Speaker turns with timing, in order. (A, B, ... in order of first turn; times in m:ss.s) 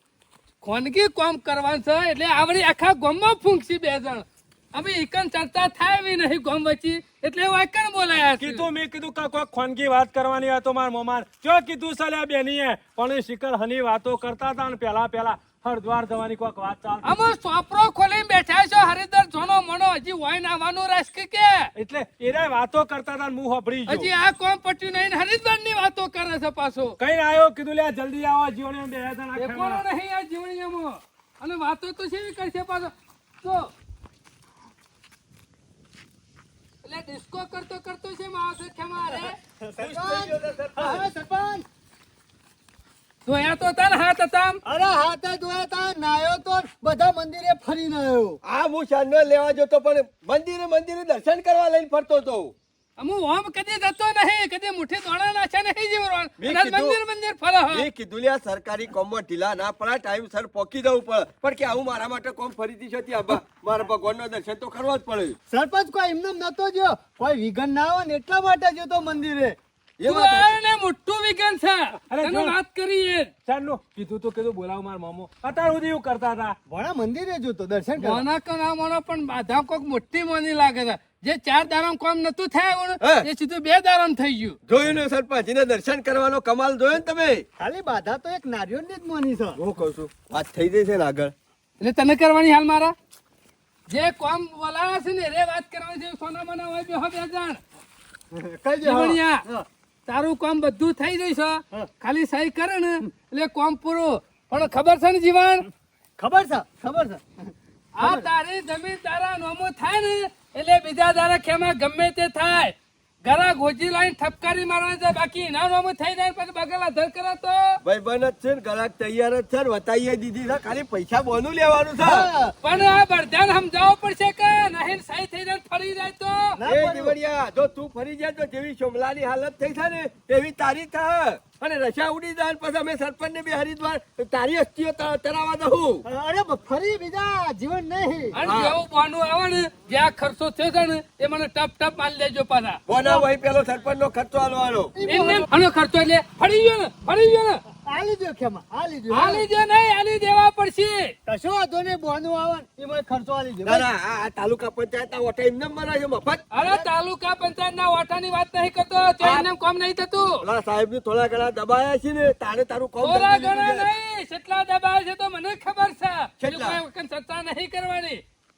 0:00.6-0:08.6 A
0:08.4-0:17.0 B
0:17.0-0:21.7 A
0:21.8-0:24.1 B
0:23.9-0:27.0 A
0:27.0-0:29.8 B
0:29.3-0:33.7 A
0:36.8-0:39.4 A
0:39.6-0:41.6 C
0:39.8-0:41.0 D
0:43.2-0:44.6 A
0:44.6-0:48.4 C
0:48.4-0:52.5 D
0:53.0-0:57.8 A
0:56.4-0:57.0 D
0:57.7-1:05.4 D
1:05.5-1:09.6 C
1:10.0-1:10.5 D
1:10.0-1:13.3 A
1:12.0-1:12.6 B
1:13.4-1:16.6 B
1:16.7-1:18.2 C
1:18.0-1:24.6 A
1:23.0-1:23.3 D
1:24.6-1:27.4 D
1:27.6-1:29.6 C
1:29.6-1:31.3 D
1:31.8-1:32.9 A
1:33.9-1:37.6 A
1:38.3-1:39.6 C
1:38.8-1:39.4 A
1:40.1-1:45.6 A
1:46.2-1:48.3 C
1:48.0-1:52.7 A
1:53.2-1:57.8 A
1:57.8-2:02.3 D
2:02.0-2:02.5 C
2:02.6-2:06.6 A
2:06.6-2:07.1 C
2:06.6-2:16.0 D
2:16.0-2:18.4 C
2:18.3-2:22.8 A
2:18.4-2:18.8 D
2:22.9-2:24.9 D
2:25.0-2:25.4 C
2:25.1-2:27.6 A
2:27.8-2:29.4 C
2:29.1-2:31.1 A
2:31.3-2:33.9 C
2:33.6-2:36.8 D
2:36.5-2:40.4 A
2:39.2-2:39.5 D
2:40.4-2:43.9 D
2:43.0-2:48.2 A
2:46.4-2:46.8 D